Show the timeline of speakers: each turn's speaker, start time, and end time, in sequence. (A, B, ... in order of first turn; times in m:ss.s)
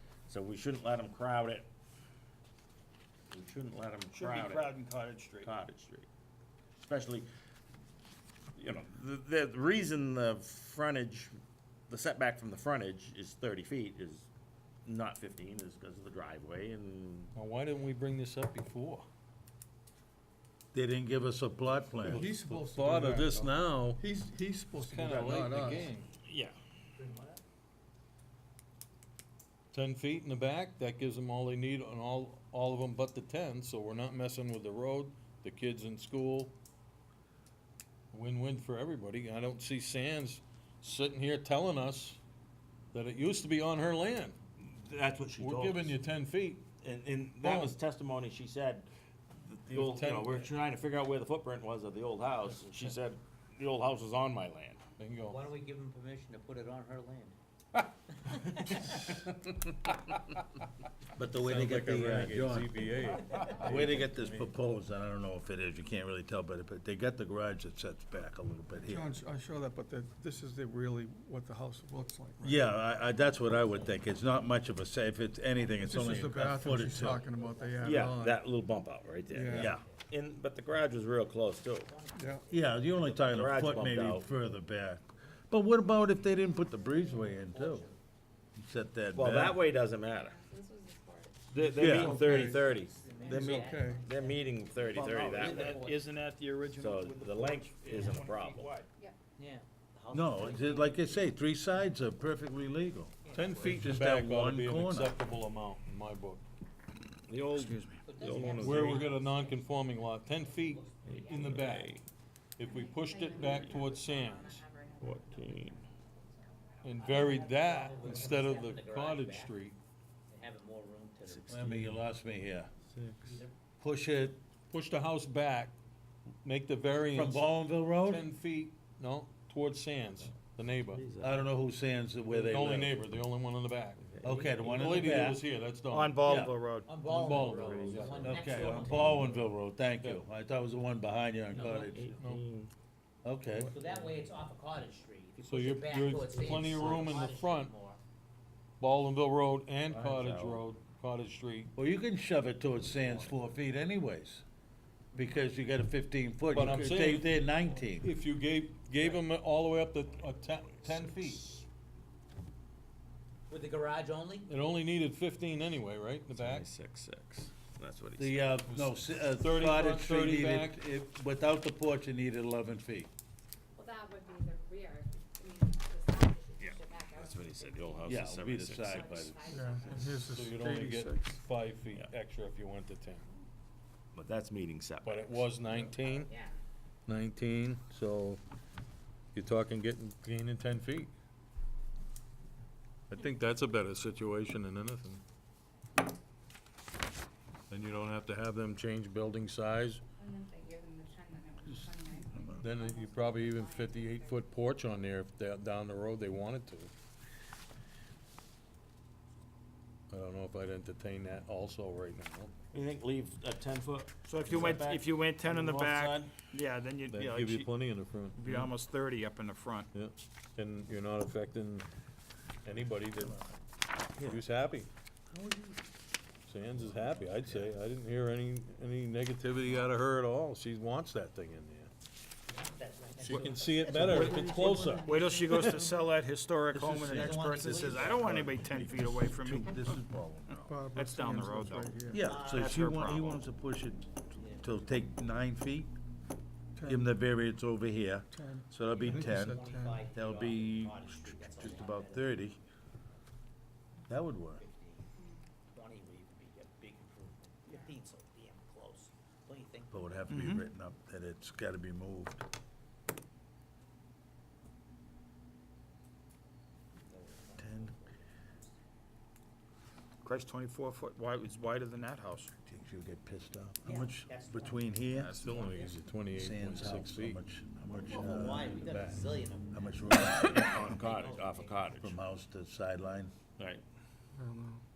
0:00.3-0:01.7 A
0:03.3-0:04.7 A
0:04.1-0:05.5 B
0:05.4-0:06.1 A
0:06.8-0:07.3 A
0:08.6-0:11.4 A
0:11.9-0:14.3 A
0:14.8-0:17.3 A
0:17.3-0:19.1 C
0:20.7-0:22.3 D
0:22.0-0:25.9 E
0:22.0-0:24.0 C
0:24.8-0:26.1 C
0:26.2-0:26.6 A
0:27.0-0:27.4 F
0:29.7-0:36.5 C
0:38.1-0:42.2 C
0:42.9-0:44.4 C
0:44.6-0:45.9 A
0:45.4-0:46.6 C
0:46.8-0:54.8 A
0:47.4-0:47.8 C
0:49.7-0:50.5 C
0:55.0-0:55.5 C
0:55.3-0:57.4 F
0:58.3-0:59.0 F
0:58.7-0:59.3 C
1:01.2-1:02.8 D
1:01.3-1:04.5 C
1:03.4-1:09.1 D
1:08.8-1:12.7 E
1:12.4-1:17.2 D
1:13.0-1:14.1 F
1:15.5-1:16.0 F
1:15.8-1:18.4 E
1:16.7-1:20.2 F
1:17.8-1:21.9 A
1:19.2-1:19.8 E
1:19.5-1:19.8 D
1:21.5-1:24.3 F
1:22.1-1:22.4 E
1:22.5-1:27.9 D
1:23.0-1:24.2 A
1:26.4-1:27.3 G
1:27.2-1:28.0 F
1:28.6-1:29.6 D
1:29.1-1:30.4 A
1:30.0-1:31.6 G
1:31.5-1:35.8 A
1:31.6-1:32.7 E
1:31.7-1:32.2 D
1:32.3-1:33.9 G
1:32.5-1:34.6 F
1:33.2-1:34.1 E
1:34.6-1:34.9 G
1:34.9-1:38.8 B
1:35.3-1:36.1 F
1:36.7-1:38.8 A
1:39.4-1:41.3 F
1:40.1-1:45.2 D
1:43.2-1:43.5 F
1:43.3-1:43.7 B
1:43.3-1:46.4 C
1:47.3-1:49.1 A
1:47.5-1:48.0 B
1:48.0-1:51.8 F
1:48.4-1:52.0 C
1:51.0-1:52.0 A
1:52.6-1:54.6 C
1:52.6-1:57.1 G
1:53.3-1:53.9 A
1:55.0-1:55.8 A
1:56.8-1:59.8 C
1:56.9-1:59.5 F
2:00.3-2:01.8 F
2:01.2-2:02.0 A
2:01.5-2:02.7 D
2:02.9-2:03.4 A
2:03.2-2:03.5 F
2:03.8-2:04.4 D
2:04.7-2:05.7 C
2:06.4-2:07.5 C
2:07.1-2:08.3 D
2:08.0-2:11.0 C
2:10.9-2:11.5 A
2:11.2-2:13.0 D
2:12.3-2:14.1 C
2:14.0-2:14.3 A
2:14.2-2:15.3 F
2:14.2-2:15.4 D
2:14.7-2:16.3 C
2:15.9-2:16.9 B
2:16.2-2:16.5 D
2:16.8-2:19.3 F
2:17.0-2:19.2 C
2:17.2-2:19.3 A
2:18.2-2:22.2 D
2:21.5-2:21.9 F
2:21.5-2:22.7 A
2:21.5-2:22.4 C
2:23.2-2:23.7 D
2:23.6-2:28.0 F
2:23.7-2:24.2 A
2:25.4-2:27.7 C
2:28.8-2:31.7 C
2:29.8-2:30.7 A
2:31.8-2:34.4 D
2:32.9-2:33.4 A
2:35.1-2:35.4 F
2:35.1-2:38.1 D
2:36.5-2:37.3 C
2:37.2-2:37.9 F
2:38.0-2:41.5 C
2:41.0-2:41.4 D
2:43.5-2:44.5 F
2:44.4-2:46.6 C
2:46.3-2:48.6 A
2:48.2-2:53.1 D
2:48.7-2:50.8 C
2:53.7-2:58.2 G
2:56.6-2:59.1 A
2:58.0-2:59.6 D
2:58.7-3:00.1 G
2:59.5-3:01.4 E
3:00.1-3:03.3 C
3:04.1-3:05.4 A
3:05.0-3:06.3 C
3:06.1-3:06.6 F
3:07.1-3:08.4 C
3:09.3-3:11.1 C
3:13.1-3:15.2 C
3:17.7-3:20.0 C
3:20.2-3:24.4 G
3:22.3-3:22.6 D
3:22.6-3:26.9 C
3:30.1-3:32.5 C
3:32.7-3:36.4 A
3:34.2-3:37.7 B
3:37.1-3:38.7 C
3:38.3-3:39.9 B
3:39.9-3:41.9 C
3:42.6-3:43.6 C
3:44.2-3:44.9 C
3:45.3-3:45.8 A
3:46.4-3:51.9 C
3:52.5-3:55.7 F
3:53.2-3:55.8 C
3:54.0-4:03.4 B
3:56.7-4:00.6 D
3:57.1-3:58.4 F
4:00.6-4:02.3 E
4:02.1-4:05.9 D
4:02.2-4:02.8 F
4:04.3-4:05.0 F
4:06.8-4:07.1 E
4:06.8-4:12.6 D
4:08.3-4:10.1 E
4:08.9-4:12.5 F
4:14.1-4:14.6 D
4:14.6-4:15.1 F
4:15.2-4:15.4 G
4:15.6-4:20.1 F
4:19.9-4:22.4 D
4:20.3-4:20.6 B
4:27.1-4:28.2 F
4:27.6-4:27.9 D
4:30.2-4:32.5 B
4:32.6-4:35.3 D
4:33.8-4:36.0 F
4:35.2-4:35.5 B
4:35.3-4:35.8 A
4:35.4-4:37.4 C
4:36.3-4:39.2 D
4:38.0-4:42.0 F
4:39.7-4:40.9 D
4:40.4-4:42.2 A
4:42.0-4:43.3 D
4:43.6-4:43.8 A
4:44.4-4:44.8 E